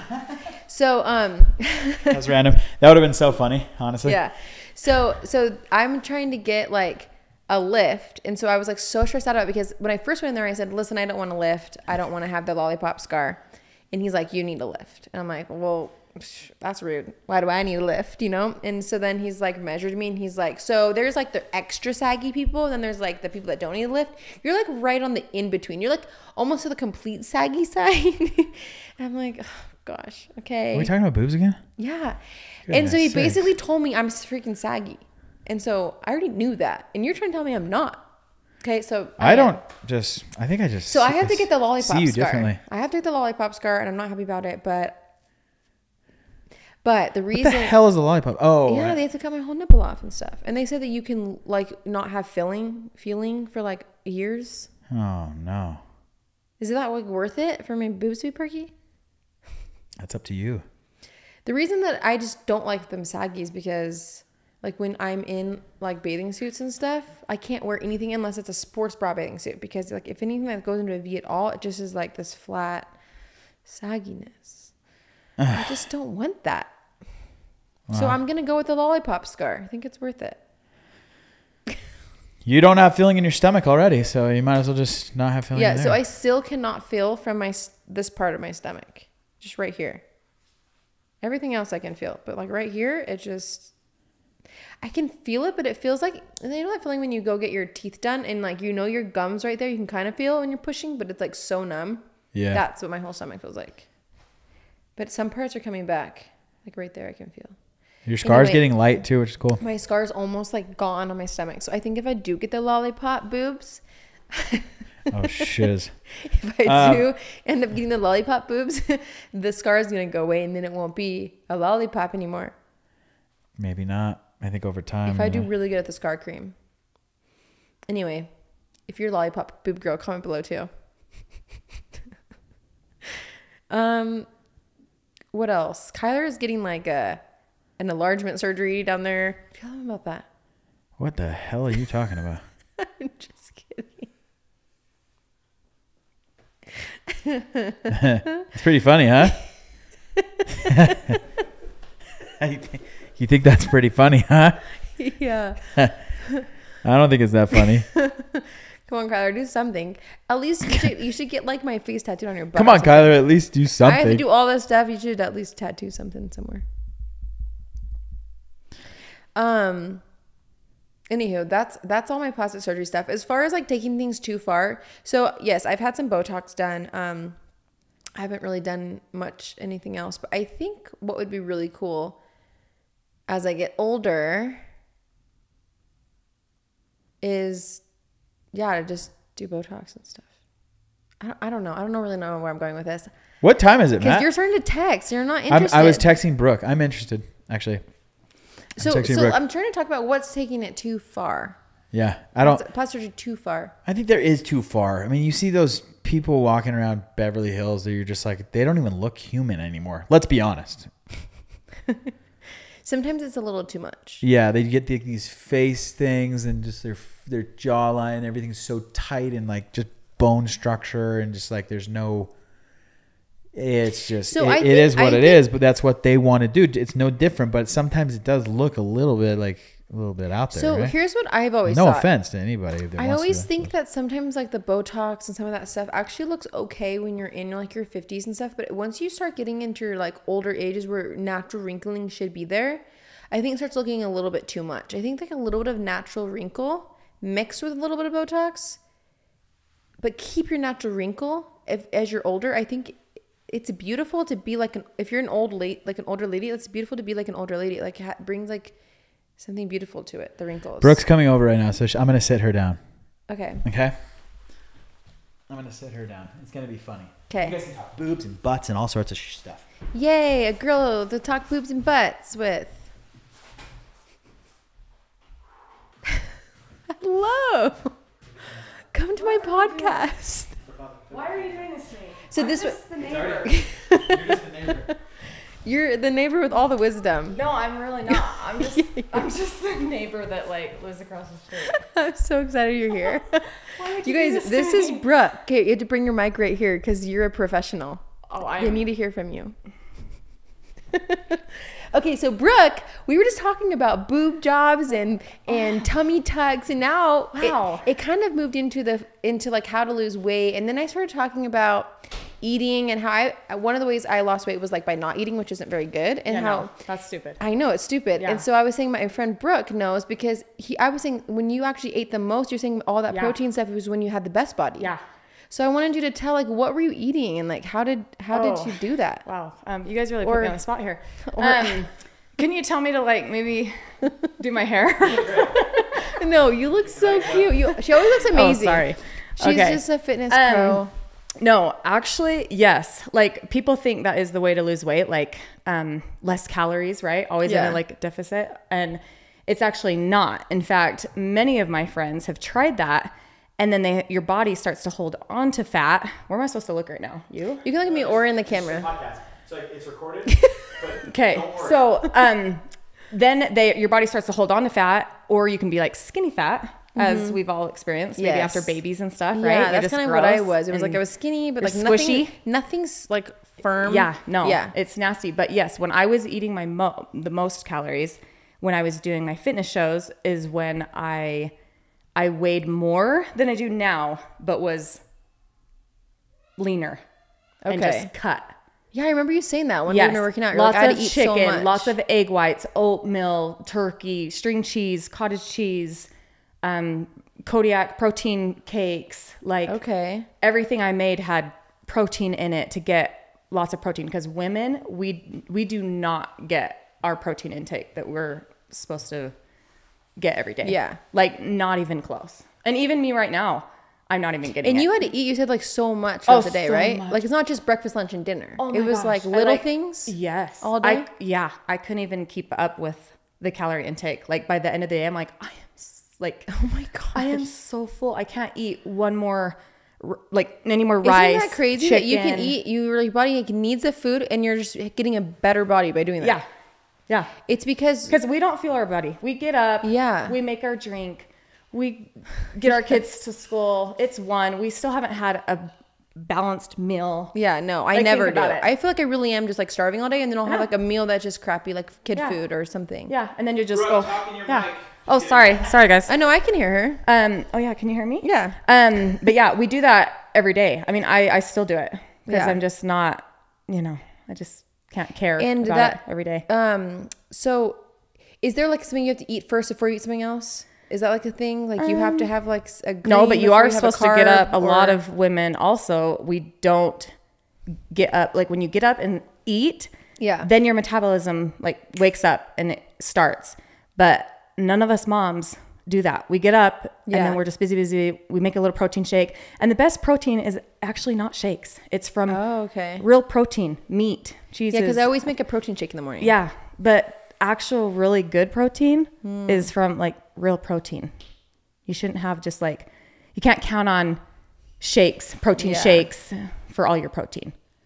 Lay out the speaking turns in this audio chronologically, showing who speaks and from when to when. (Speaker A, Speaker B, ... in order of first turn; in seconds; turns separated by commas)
Speaker A: 0.5-2.2, Speaker B: 2.1-4.2, Speaker A: 4.0-30.9, Speaker B: 30.7-31.6, Speaker A: 31.8-38.1, Speaker B: 32.7-33.4, Speaker A: 38.6-39.6, Speaker B: 39.2-42.6, Speaker A: 40.9-45.0, Speaker A: 46.8-47.8, Speaker B: 47.3-49.0, Speaker A: 48.7-54.7, Speaker B: 54.9-55.8, Speaker A: 56.6-58.7, Speaker B: 60.0-60.6, Speaker A: 61.5-72.9, Speaker A: 73.6-74.8, Speaker B: 75.4-75.7, Speaker A: 75.5-76.7, Speaker B: 77.9-78.2, Speaker A: 77.9-80.4, Speaker B: 82.5-86.0, Speaker A: 85.5-90.0, Speaker A: 91.2-93.7, Speaker A: 94.8-103.9, Speaker B: 102.3-102.6, Speaker A: 105.0-107.6, Speaker B: 108.0-109.6, Speaker A: 108.2-108.7, Speaker A: 109.6-113.8, Speaker A: 114.3-114.7, Speaker B: 115.1-116.0, Speaker A: 116.2-122.5, Speaker B: 116.6-117.1, Speaker B: 123.6-125.5, Speaker A: 125.1-126.6, Speaker A: 127.9-128.3, Speaker A: 128.9-130.7, Speaker A: 133.7-134.3, Speaker A: 135.3-137.2, Speaker A: 137.8-140.3, Speaker B: 141.0-142.4, Speaker A: 142.8-144.1, Speaker A: 147.2-148.4, Speaker B: 147.9-149.6, Speaker A: 150.6-151.2, Speaker B: 150.7-151.2, Speaker B: 152.4-154.7, Speaker A: 155.0-156.4, Speaker B: 156.8-157.9, Speaker A: 157.9-163.2, Speaker B: 162.6-164.2, Speaker A: 163.8-166.6, Speaker A: 169.3-170.0, Speaker A: 171.1-177.4, Speaker A: 178.2-182.2, Speaker A: 183.3-184.6, Speaker A: 187.2-187.8, Speaker A: 188.5-190.3, Speaker A: 191.2-193.1, Speaker B: 193.4-194.3, Speaker A: 194.0-196.1, Speaker B: 195.5-197.8, Speaker A: 198.8-201.6, Speaker B: 198.8-199.4, Speaker B: 201.9-202.6, Speaker A: 202.4-203.7, Speaker B: 203.9-210.9, Speaker A: 212.8-214.2, Speaker B: 214.2-222.3, Speaker B: 223.5-230.9, Speaker A: 224.3-225.4, Speaker A: 230.5-232.1, Speaker B: 231.7-233.7, Speaker A: 233.0-248.8, Speaker A: 250.0-258.8, Speaker A: 259.4-261.0, Speaker B: 260.8-262.8, Speaker A: 263.3-263.6, Speaker B: 263.6-264.0, Speaker B: 265.5-269.6, Speaker A: 267.3-267.6, Speaker A: 269.9-272.9, Speaker A: 276.9-278.0, Speaker A: 278.9-280.6, Speaker C: 279.2-280.0, Speaker B: 280.7-281.4, Speaker C: 281.1-283.5, Speaker A: 282.3-285.0, Speaker B: 283.0-284.9, Speaker A: 285.6-287.4, Speaker C: 287.3-291.9, Speaker A: 288.1-289.2, Speaker A: 291.7-298.0, Speaker C: 293.6-295.1, Speaker C: 298.3-298.9, Speaker A: 298.6-299.6, Speaker A: 300.9-316.7, Speaker C: 307.4-307.9, Speaker C: 316.3-317.4, Speaker A: 317.4-324.9, Speaker C: 318.2-318.4, Speaker C: 323.1-323.4, Speaker A: 325.5-329.2, Speaker C: 328.3-336.2, Speaker A: 330.2-330.6, Speaker A: 331.2-331.8, Speaker A: 336.0-340.9, Speaker B: 337.0-337.5, Speaker C: 338.2-340.9, Speaker C: 341.4-357.6, Speaker A: 347.4-347.8, Speaker A: 357.6-358.9, Speaker B: 357.9-361.8, Speaker A: 360.3-360.8, Speaker C: 361.1-371.0, Speaker A: 367.0-367.4, Speaker A: 368.2-368.8, Speaker A: 369.3-374.7, Speaker C: 371.6-372.4, Speaker C: 373.9-381.5, Speaker C: 382.2-385.0, Speaker C: 386.6-387.0, Speaker A: 387.6-388.1, Speaker C: 387.7-388.6, Speaker A: 388.9-391.9, Speaker C: 389.9-396.1, Speaker C: 396.6-399.8, Speaker A: 399.7-400.3, Speaker C: 400.4-409.4, Speaker C: 410.2-414.9, Speaker A: 410.6-411.0, Speaker A: 414.6-421.1, Speaker C: 416.3-417.2, Speaker C: 418.6-426.6, Speaker A: 426.5-427.4, Speaker C: 427.1-432.6, Speaker A: 431.0-436.4, Speaker A: 437.5-438.2, Speaker C: 438.1-447.4, Speaker A: 439.8-440.4, Speaker A: 447.3-453.1, Speaker C: 447.9-448.7, Speaker C: 453.1-456.1, Speaker B: 453.8-455.6, Speaker A: 456.1-457.0, Speaker C: 457.0-466.4, Speaker A: 458.2-458.6, Speaker A: 462.3-462.6, Speaker A: 465.4-467.8, Speaker A: 468.4-475.0, Speaker C: 471.8-472.3, Speaker C: 473.0-477.1, Speaker C: 477.9-479.9, Speaker A: 480.2-480.5, Speaker C: 480.4-492.4, Speaker A: 487.1-487.4, Speaker A: 492.3-493.0, Speaker C: 493.0-495.2, Speaker A: 494.7-496.4, Speaker C: 496.2-501.1, Speaker A: 499.2-499.7, Speaker C: 501.9-504.2, Speaker C: 504.8-507.6, Speaker A: 505.6-506.1